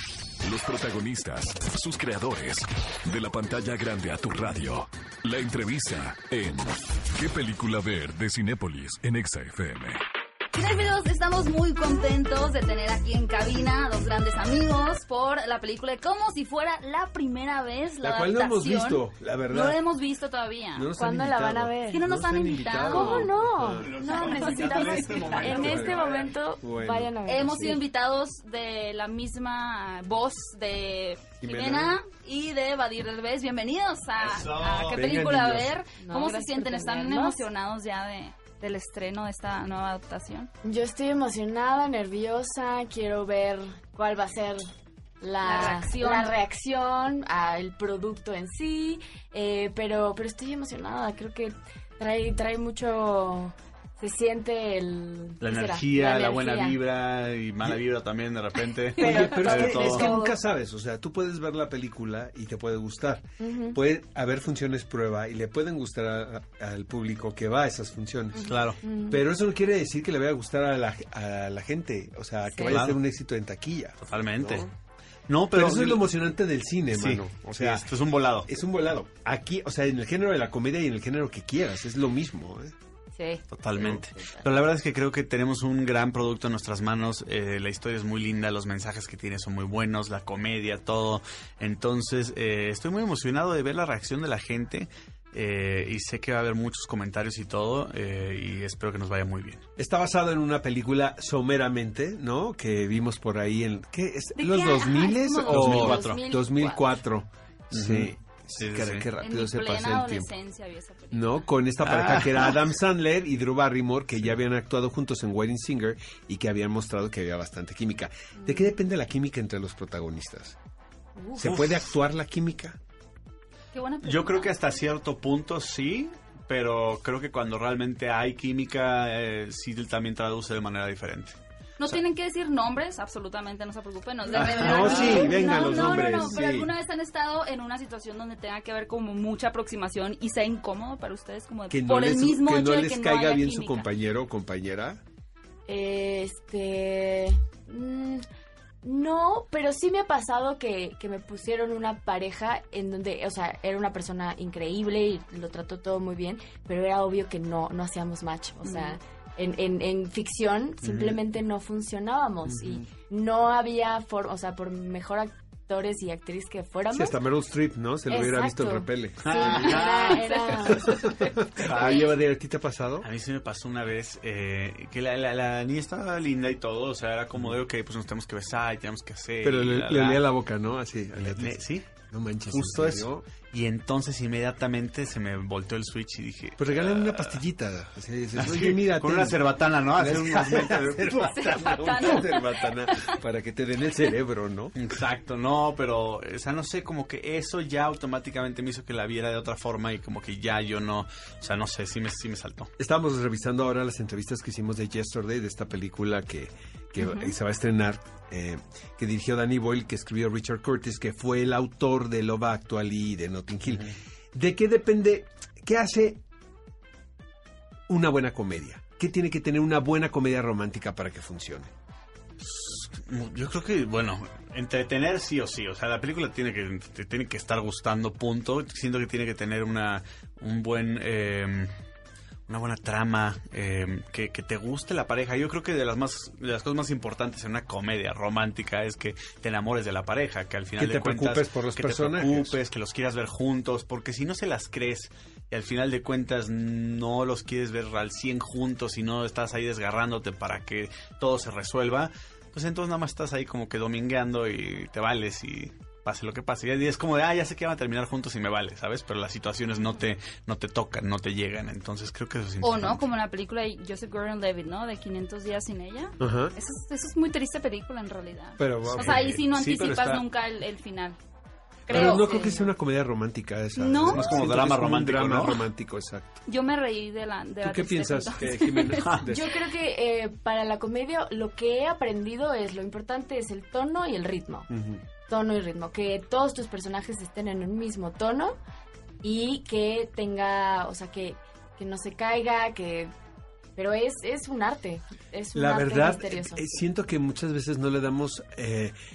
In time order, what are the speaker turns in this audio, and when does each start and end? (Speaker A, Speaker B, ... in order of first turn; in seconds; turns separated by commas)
Speaker A: 0.4-10.0, Speaker B: 10.5-20.9, Speaker C: 18.0-19.8, Speaker C: 20.7-23.9, Speaker D: 20.9-22.0, Speaker B: 21.9-25.6, Speaker D: 22.9-27.8, Speaker E: 23.6-26.3, Speaker C: 25.4-27.8, Speaker B: 27.2-40.5, Speaker C: 31.4-31.9, Speaker E: 34.2-35.4, Speaker C: 34.9-35.7, Speaker D: 36.0-37.5, Speaker D: 40.6-44.6, Speaker D: 45.2-56.8, Speaker B: 45.4-46.3, Speaker E: 55.4-60.1, Speaker C: 59.0-74.7, Speaker D: 59.0-60.3, Speaker B: 59.2-60.1, Speaker D: 63.4-63.8, Speaker D: 68.3-69.2, Speaker E: 68.4-68.8, Speaker D: 72.5-72.8, Speaker E: 72.7-73.0, Speaker E: 74.0-74.7, Speaker E: 75.3-76.0, Speaker C: 75.5-82.7, Speaker E: 76.9-78.5, Speaker D: 83.1-84.5, Speaker E: 83.5-99.6, Speaker C: 99.8-110.3, Speaker B: 104.3-105.9, Speaker E: 105.5-106.2, Speaker D: 105.7-106.7, Speaker E: 107.7-109.1, Speaker B: 109.2-111.5, Speaker C: 111.1-120.6, Speaker E: 111.8-112.6, Speaker D: 118.4-118.7, Speaker D: 121.2-121.6, Speaker C: 121.3-122.8, Speaker E: 121.4-121.8, Speaker B: 123.7-124.5, Speaker E: 124.0-132.0, Speaker B: 131.8-143.9, Speaker C: 134.3-136.7, Speaker E: 134.3-135.5, Speaker D: 135.1-135.5, Speaker C: 141.7-145.0, Speaker D: 145.7-148.2, Speaker D: 148.8-167.2, Speaker B: 158.6-158.9, Speaker E: 160.8-161.2, Speaker E: 162.5-162.8, Speaker C: 166.9-169.7, Speaker D: 168.1-171.0, Speaker E: 169.2-170.2, Speaker B: 169.5-171.3, Speaker C: 170.7-173.1, Speaker E: 171.6-172.2, Speaker E: 173.0-180.2, Speaker C: 179.4-183.2, Speaker E: 181.2-181.9, Speaker E: 182.5-187.4, Speaker C: 186.6-194.7, Speaker E: 188.3-192.0, Speaker B: 191.2-193.2, Speaker E: 194.7-202.7, Speaker C: 202.8-216.2, Speaker B: 207.0-207.3, Speaker C: 217.9-221.7, Speaker E: 222.4-231.7, Speaker E: 232.5-263.1, Speaker C: 240.8-242.6, Speaker B: 262.6-271.2, Speaker C: 266.2-266.5, Speaker C: 268.6-269.4, Speaker E: 268.8-270.2, Speaker B: 271.9-272.7, Speaker D: 271.9-272.5, Speaker C: 271.9-276.4, Speaker B: 273.8-274.3, Speaker E: 274.1-275.7, Speaker B: 276.4-279.6, Speaker C: 277.6-279.5, Speaker D: 279.2-284.7, Speaker C: 284.7-285.0, Speaker D: 285.2-288.6, Speaker D: 289.2-293.1, Speaker D: 293.8-296.6, Speaker C: 295.5-299.0